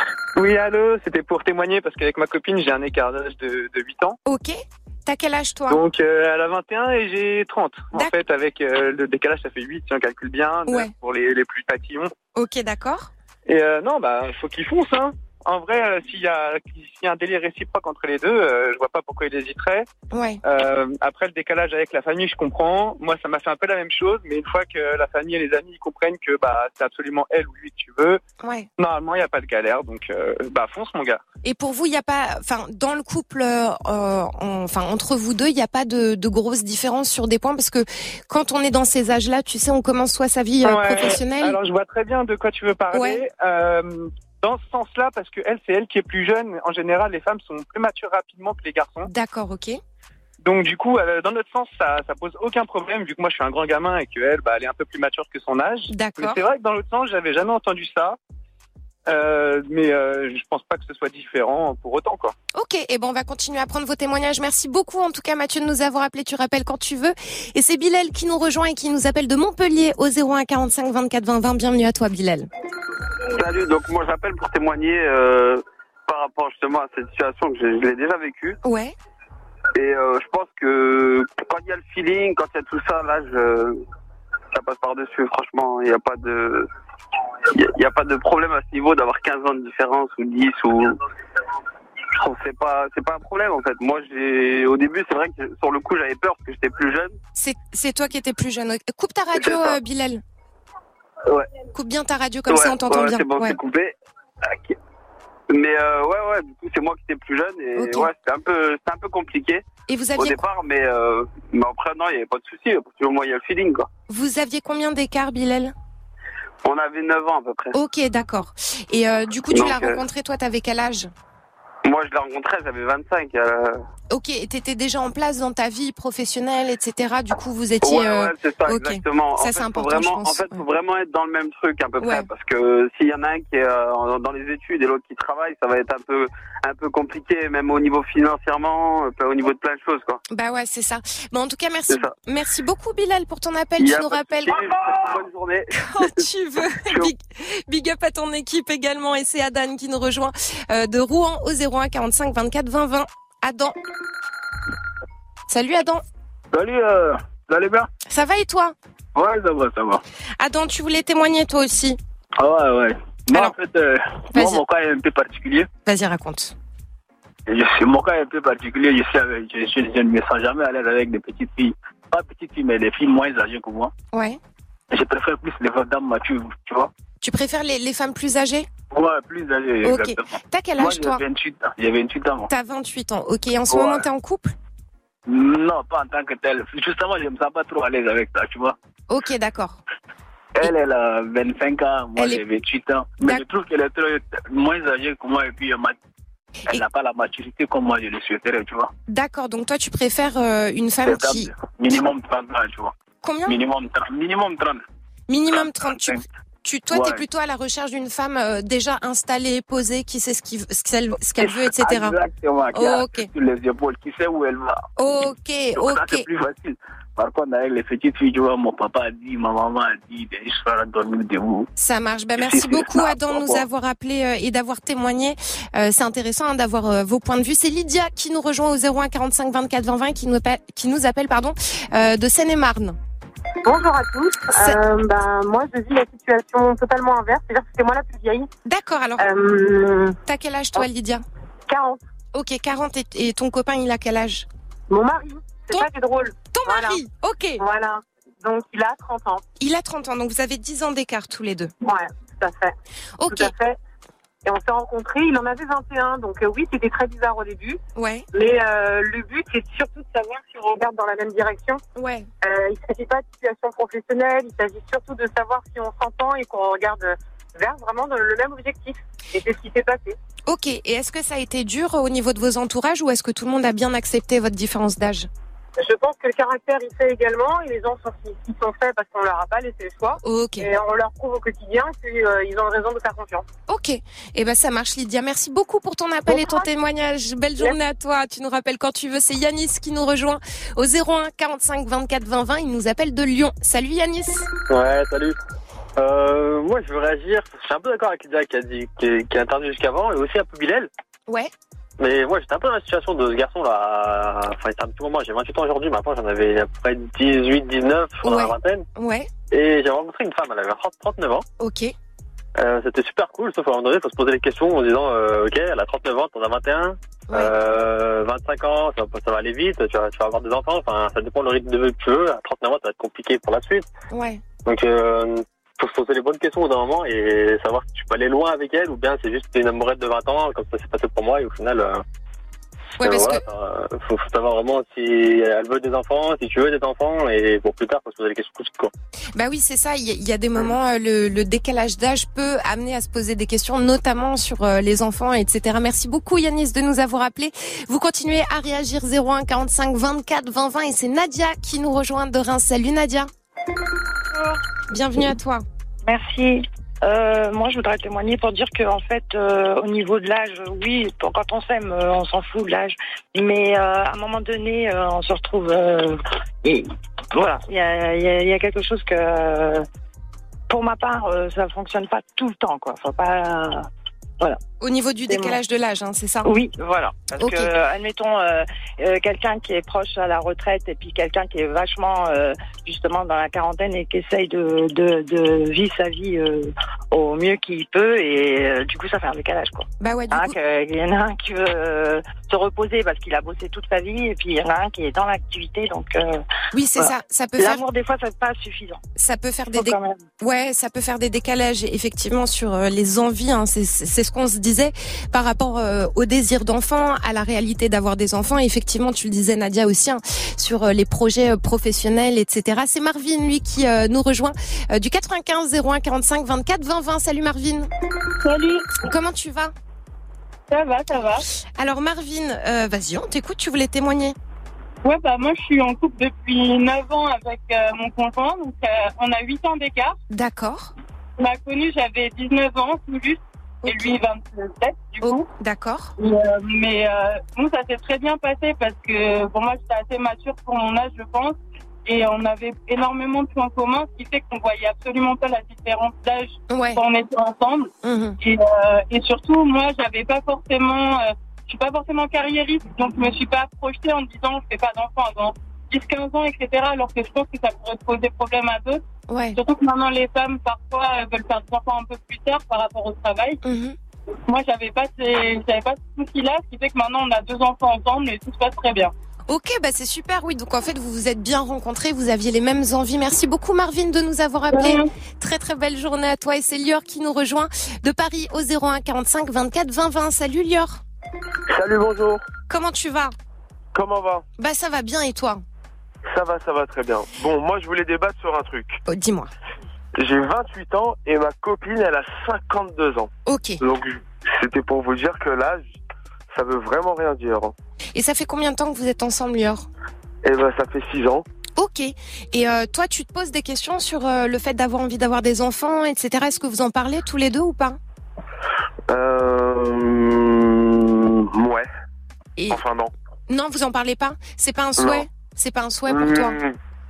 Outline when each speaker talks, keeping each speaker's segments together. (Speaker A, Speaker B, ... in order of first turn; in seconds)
Speaker A: 0.3-4.2, 5.7-12.1, 13.4-19.9, 20.4-28.2, 28.8-31.2, 40.6-49.1, 50.4-58.2, 59.1-62.3
Speaker B: 4.2-5.8, 10.7-10.9, 12.3-13.1, 20.1-20.4, 28.4-28.7, 31.4-41.6, 42.9-43.2, 49.0-49.8, 55.9-56.4, 62.5-72.5, 78.6-78.9, 97.3-100.2, 101.7-103.6, 107.8-108.1, 109.9-110.4, 114.1-115.7, 117.7-121.1, 124.1-130.6, 132.0-132.3, 140.3-144.6, 145.8-153.8, 155.5-156.0, 158.1-158.7, 160.4-162.0, 164.3-164.6, 165.8-166.5, 174.1-174.4, 177.2-178.7, 179.8-181.2, 182.5-184.5, 189.1-189.8, 199.1-201.5, 203.2-203.6, 205.3-212.1, 212.7-213.3, 215.0-216.2, 221.8-233.0, 234.5-234.8, 238.6-239.3, 240.2-241.2, 242.3-244.5, 246.5-247.6, 249.6-251.7, 253.2-253.5, 257.9-258.2, 261.9-262.3, 270.5-275.3, 280.2-280.7, 283.7-294.5, 308.2-309.3, 311.6-311.9, 324.1-324.4, 333.0-333.4, 339.3-353.3, 354.9-355.6, 374.8-376.5, 377.4-377.7, 390.0-390.6, 396.7-397.8, 399.1-417.9, 419.0-419.7, 421.8-424.4, 430.3-430.9, 433.8-434.1, 435.2-436.1, 446.7-447.0, 448.0-448.4, 459.3-459.6, 463.6-464.0, 469.5-481.0, 482.7-483.3, 484.6-485.6, 489.1-489.5, 493.4-493.8, 498.1-499.9, 501.8-508.0, 512.6-512.8, 513.5-516.6
Speaker C: 73.3-78.6, 79.7-83.8, 84.5-86.7, 87.5-90.9, 92.2-97.1, 99.4-99.7, 102.5-104.0, 105.5-109.6, 110.2-113.9, 116.6-117.8, 119.5-120.0, 121.8-123.8, 127.8-140.2, 143.8-145.7
Speaker D: 156.5-157.9, 159.1-160.0, 162.4-165.7, 167.5-173.9, 174.9-176.9, 178.9-182.5, 183.7-184.1, 185.3-188.8, 190.6-195.9, 196.7-198.9, 201.1-202.9, 203.5-204.8, 205.5-206.2, 206.9-207.2, 211.3-214.8, 215.7-221.7, 222.4-223.6
Speaker E: 233.6-238.5, 239.2-240.2, 241.7-242.0, 244.9-247.0, 247.6-249.4, 251.8-252.8, 253.3-253.8, 254.4-257.8, 258.3-261.8, 262.4-270.2, 275.8-283.4, 286.3-286.7
Speaker F: 294.7-295.4, 296.0-300.9, 302.0-308.8, 309.5-311.4, 312.6-323.9, 324.6-332.0, 333.0-338.9
Speaker G: 354.3-354.6, 356.0-369.9, 370.7-373.9, 375.3-375.6, 376.4-396.4, 397.0-399.0, 399.7-400.2
Speaker H: 418.4-419.0, 420.7-421.4, 425.0-430.1, 431.4-435.5, 436.2-459.0, 459.5-463.6, 464.5-469.1, 474.7-475.1
Speaker I: 481.7-482.4, 483.9-484.4, 486.3-489.0, 490.2-496.0, 496.5-497.7, 500.4-501.4, 509.1-511.9, 512.7-513.1, 515.0-515.2, 516.1-516.7